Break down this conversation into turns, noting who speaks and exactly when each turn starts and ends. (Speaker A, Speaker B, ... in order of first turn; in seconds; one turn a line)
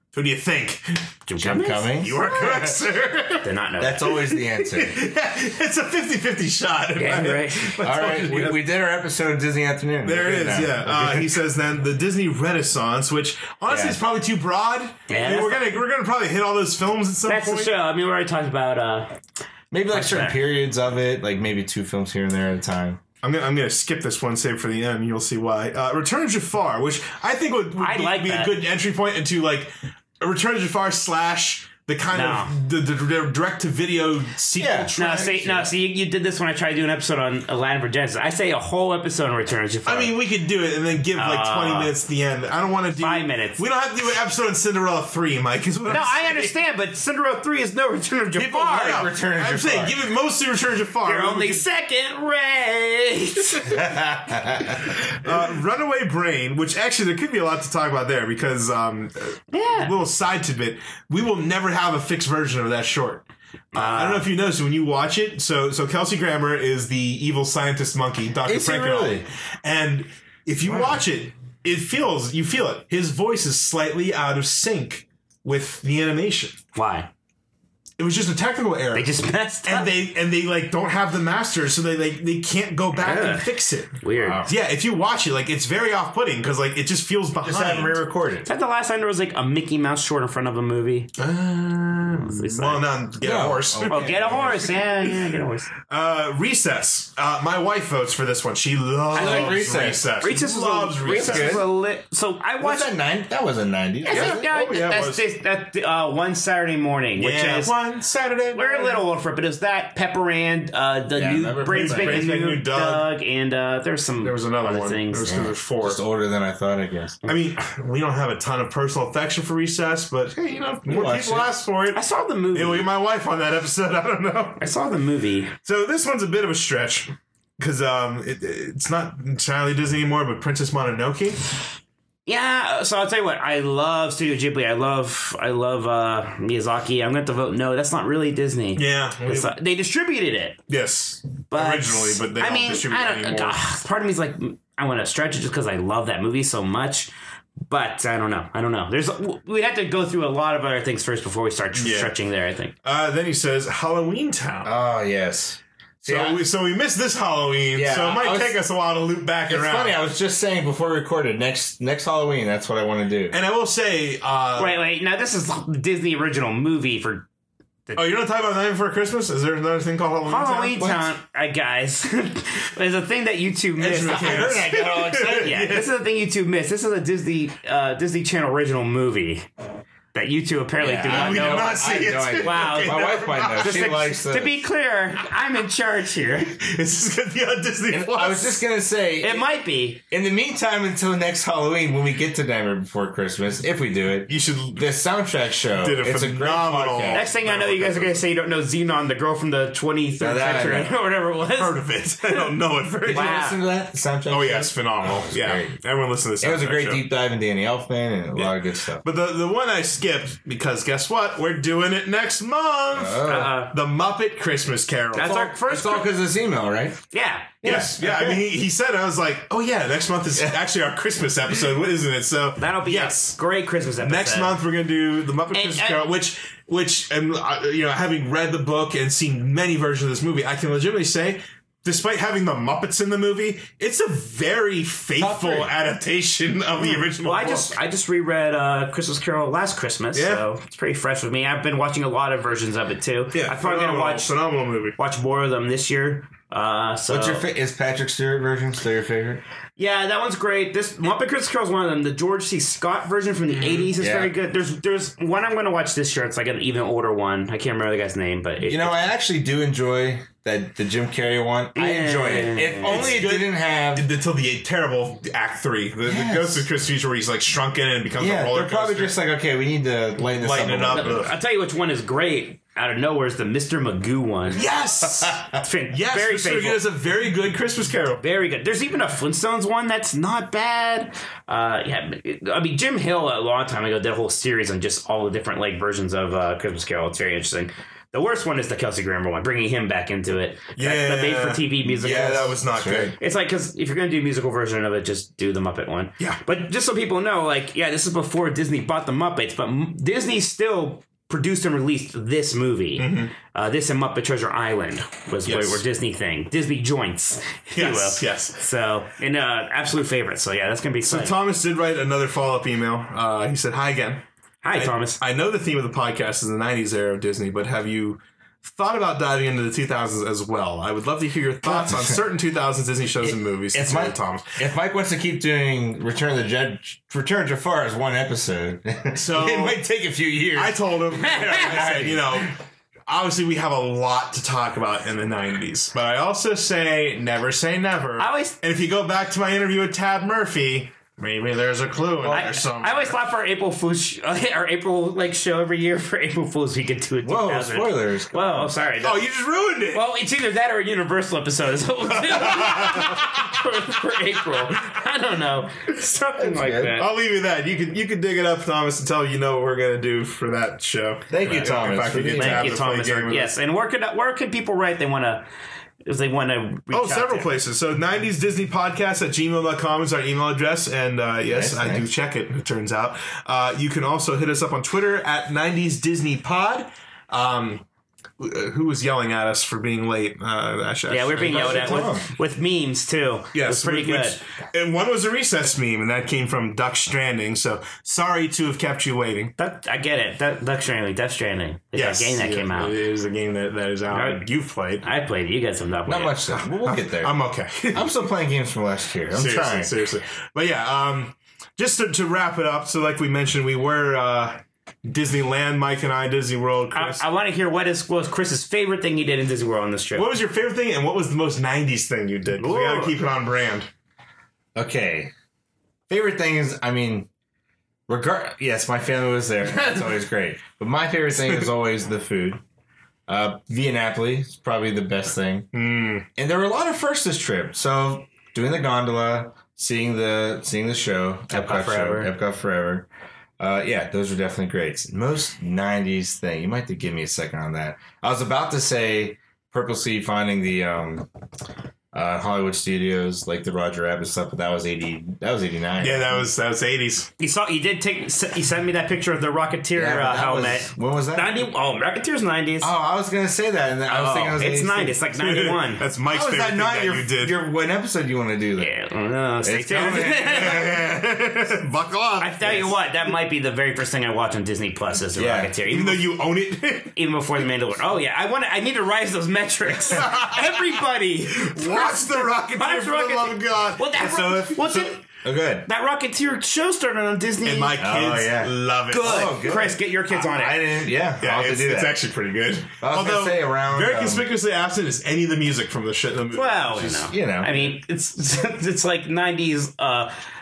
Speaker A: 0.1-1.0
Speaker B: 1.3-2.5
Speaker C: 1.4-2.8
Speaker A: 2.0-3.5
Speaker B: 3.4-4.2
Speaker C: 3.8-5.0
Speaker A: 4.6-8.6
Speaker B: 7.0-7.8
Speaker C: 7.8-11.3
Speaker A: 10.0-17.7
Speaker C: 13.7-14.0
Speaker B: 15.1-15.7
Speaker B: 17.2-19.2
Speaker C: 19.7-23.0
Speaker B: 19.9-20.4
Speaker A: 23.2-35.5
Speaker B: 27.8-28.6
Speaker B: 32.1-32.5
Speaker C: 34.6-35.7
Speaker B: 35.0-40.1
Speaker A: 39.9-46.5
Speaker B: 41.1-41.9
Speaker B: 43.0-43.6
Speaker B: 45.9-49.1
Speaker C: 48.3-50.1
Speaker A: 48.7-51.6
Speaker B: 51.0-53.8
Speaker C: 53.7-55.3
Speaker A: 55.2-76.6
Speaker B: 59.5-59.9
Speaker B: 63.7-64.3
Speaker C: 68.5-69.2
Speaker B: 76.7-77.1
Speaker A: 78.0-79.1
Speaker B: 78.9-79.9
Speaker A: 79.6-88.0
Speaker B: 83.0-84.5
Speaker C: 84.2-84.5
Speaker C: 87.4-88.5
Speaker B: 88.4-91.1
Speaker A: 91.2-94.7
Speaker B: 92.2-93.0
Speaker C: 93.2-94.7
Speaker B: 93.9-95.7
Speaker A: 95.9-101.6
Speaker C: 99.1-100.4
Speaker B: 99.2-99.6
Speaker B: 100.2-102.9
Speaker C: 101.0-101.7
Speaker C: 102.6-104.5
Speaker B: 104.0-107.7
Speaker A: 104.1-105.2
Speaker A: 107.2-109.0
Speaker B: 108.5-115.5
Speaker C: 111.1-112.2
Speaker A: 111.7-113.1
Speaker A: 114.2-116.0
Speaker C: 115.8-117.2
Speaker A: 117.2-122.0
Speaker C: 120.8-121.5
Speaker B: 121.9-122.9
Speaker A: 122.5-124.6
Speaker B: 124.6-125.5
Speaker A: 125.6-131.4
Speaker B: 132.2-140.6
Speaker A: 138.8-139.5
Speaker A: 140.7-143.6
Speaker B: 141.5-147.1
Speaker B: 147.7-152.7
Speaker A: 151.8-152.1
Speaker A: 152.8-154.7
Speaker C: 154.6-156.4
Speaker A: 156.1-160.0
Speaker C: 157.7-158.6
Speaker C: 159.5-163.4
Speaker A: 163.3-164.8
Speaker B: 164.6-167.3
Speaker A: 167.9-170.9
Speaker B: 170.2-179.5
Speaker C: 170.8-171.1
Speaker A: 173.8-175.9
Speaker C: 174.1-175.6
Speaker B: 180.1-186.6
Speaker C: 180.8-184.6
Speaker A: 181.1-183.9
Speaker A: 186.6-188.6
Speaker C: 187.9-189.5
Speaker B: 189.2-190.0
Speaker C: 190.1-197.3
Speaker A: 194.3-194.8
Speaker A: 195.8-198.2
Speaker B: 197.1-203.6
Speaker C: 200.2-200.9
Speaker A: 201.5-203.4
Speaker C: 203.0-205.7
Speaker A: 204.3-207.0
Speaker C: 206.4-209.0
Speaker A: 208.3-215.5
Speaker C: 212.9-213.5
Speaker B: 213.3-213.7
Speaker B: 215.1-216.1
Speaker C: 215.2-217.0
Speaker B: 217.1-217.5
Speaker C: 217.6-218.4
Speaker A: 217.6-223.4
Speaker B: 222.6-224.6
Speaker A: 224.0-237.8
Speaker B: 225.5-226.0
Speaker C: 235.2-235.7
Speaker B: 237.2-244.3
Speaker A: 240.1-240.4
Speaker A: 243.3-245.0
Speaker B: 245.0-247.4
Speaker C: 247.1-249.4
Speaker B: 249.8-259.1
Speaker A: 253.5-253.9
Speaker C: 254.0-254.3
Speaker C: 258.6-264.1
Speaker B: 261.7-263.1
Speaker A: 262.8-269.1
Speaker C: 266.0-266.7
Speaker C: 268.2-271.3
Speaker A: 270.4-271.4
Speaker B: 270.9-274.7
Speaker A: 274.5-278.2
Speaker B: 275.5-276.8
Speaker B: 278.2-292.6
Speaker A: 290.8-293.2
Speaker C: 292.0-293.1
Speaker B: 293.2-311.4
Speaker A: 303.0-303.3
Speaker A: 305.4-305.8
Speaker A: 307.7-308.6
Speaker A: 311.0-324.5
Speaker B: 314.6-315.2
Speaker C: 321.6-322.2
Speaker C: 323.2-332.5
Speaker A: 329.1-329.8
Speaker A: 330.5-332.5
Speaker A: 333.1-343.2
Speaker B: 338.2-338.6
Speaker C: 342.2-342.5
Speaker B: 342.3-349.2
Speaker C: 347.2-348.7
Speaker A: 349.0-350.0
Speaker B: 349.9-357.1
Speaker A: 352.3-353.2
Speaker C: 356.4-357.0
Speaker A: 356.9-363.5
Speaker C: 361.3-362.7
Speaker B: 362.4-365.4
Speaker B: 366.1-367.5
Speaker A: 366.9-377.8
Speaker C: 371.4-372.1
Speaker A: 378.4-382.1
Speaker B: 381.1-384.4
Speaker C: 381.4-382.3
Speaker A: 383.5-389.5
Speaker B: 389.6-393.0
Speaker A: 391.9-395.0
Speaker B: 394.1-394.4
Speaker B: 395.0-396.4
Speaker C: 396.1-397.3
Speaker A: 396.6-398.1
Speaker C: 397.9-399.9
Speaker A: 399.3-407.2
Speaker B: 406.9-410.3
Speaker A: 410.1-413.9
Speaker B: 412.6-413.1
Speaker C: 414.7-415.3
Speaker C: 416.1-417.3
Speaker C: 418.1-422.6
Speaker C: 423.3-425.7
Speaker A: 425.7-426.2
Speaker C: 426.4-433.1
Speaker B: 431.5-432.3
Speaker C: 433.6-441.3
Speaker C: 442.1-446.5
Speaker A: 446.0-447.3
Speaker B: 447.4-452.9
Speaker C: 449.9-451.7
Speaker C: 452.8-455.2
Speaker B: 454.1-456.1
Speaker A: 455.3-457.6
Speaker C: 456.2-458.9
Speaker B: 458.8-460.9
Speaker C: 459.6-461.0
Speaker A: 459.9-462.9
Speaker B: 462.4-466.3
Speaker C: 465.3-465.8
Speaker A: 465.8-467.1
Speaker B: 467.1-475.2
Speaker A: 470.0-471.0
Speaker A: 471.5-475.2
Speaker C: 475.4-475.9
Speaker B: 475.9-477.9
Speaker A: 477.6-479.7
Speaker C: 478.0-482.2
Speaker B: 479.1-480.8
Speaker A: 481.4-487.3
Speaker C: 483.0-484.5
Speaker B: 486.5-490.3
Speaker C: 487.3-487.8